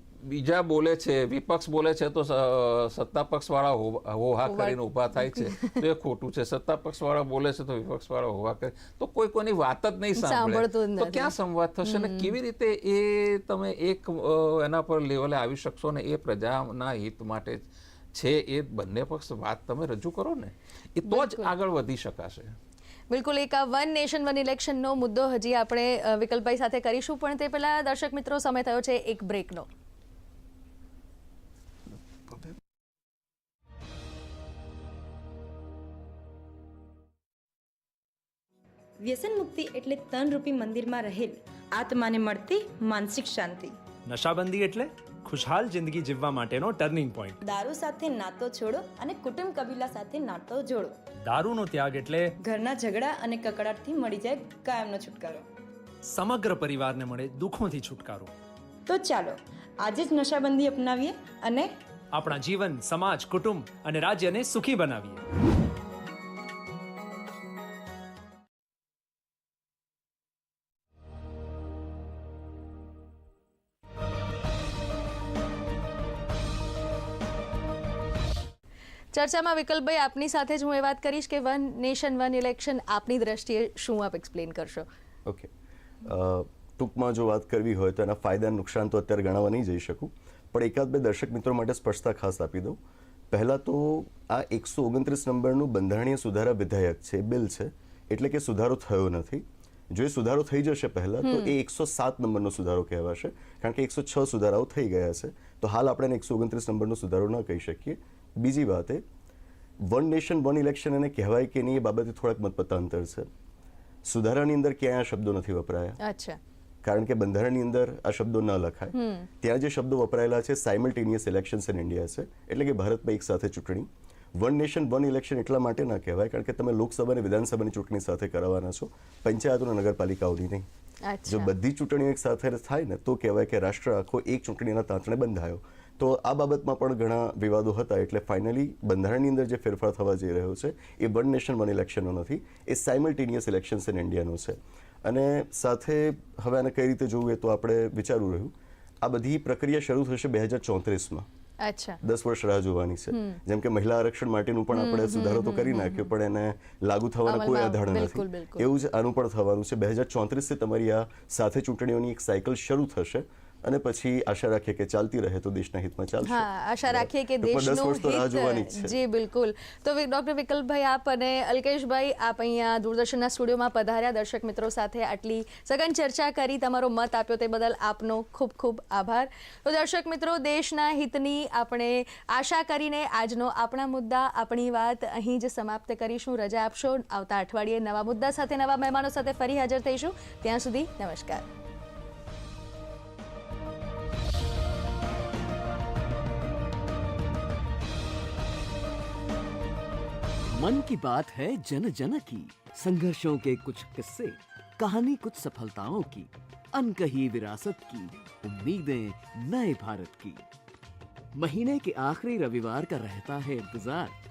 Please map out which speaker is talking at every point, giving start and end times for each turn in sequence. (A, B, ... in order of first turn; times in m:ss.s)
0:00.2-0:22.6 A
0:04.5-0:05.8 B
0:10.2-0:12.3 B
0:21.1-0:21.5 B
0:23.1-0:29.7 B
0:39.0-0:43.8 C
0:44.1-0:47.4 D
0:47.4-0:51.0 C
0:51.2-0:52.3 D
0:52.4-0:55.5 C
0:56.1-0:58.3 D
0:58.9-1:01.8 C
1:02.1-1:05.2 D
1:19.1-1:24.9 B
1:25.3-1:25.5 E
1:26.0-1:32.8 E
1:33.3-1:49.0 E
1:41.2-1:41.5 B
1:49.8-1:53.3 E
1:54.0-1:56.0 E
1:56.0-1:56.4 B
1:56.8-2:10.7 E
1:58.9-1:59.3 B
2:11.1-2:11.5 B
2:11.3-2:31.3 E
2:31.6-2:32.0 B
2:32.0-2:49.0 E
2:33.1-2:33.4 B
2:34.7-2:36.1 B
2:37.3-2:38.7 B
2:46.2-3:11.4 B
3:20.6-3:30.4 F
3:31.4-3:34.2 F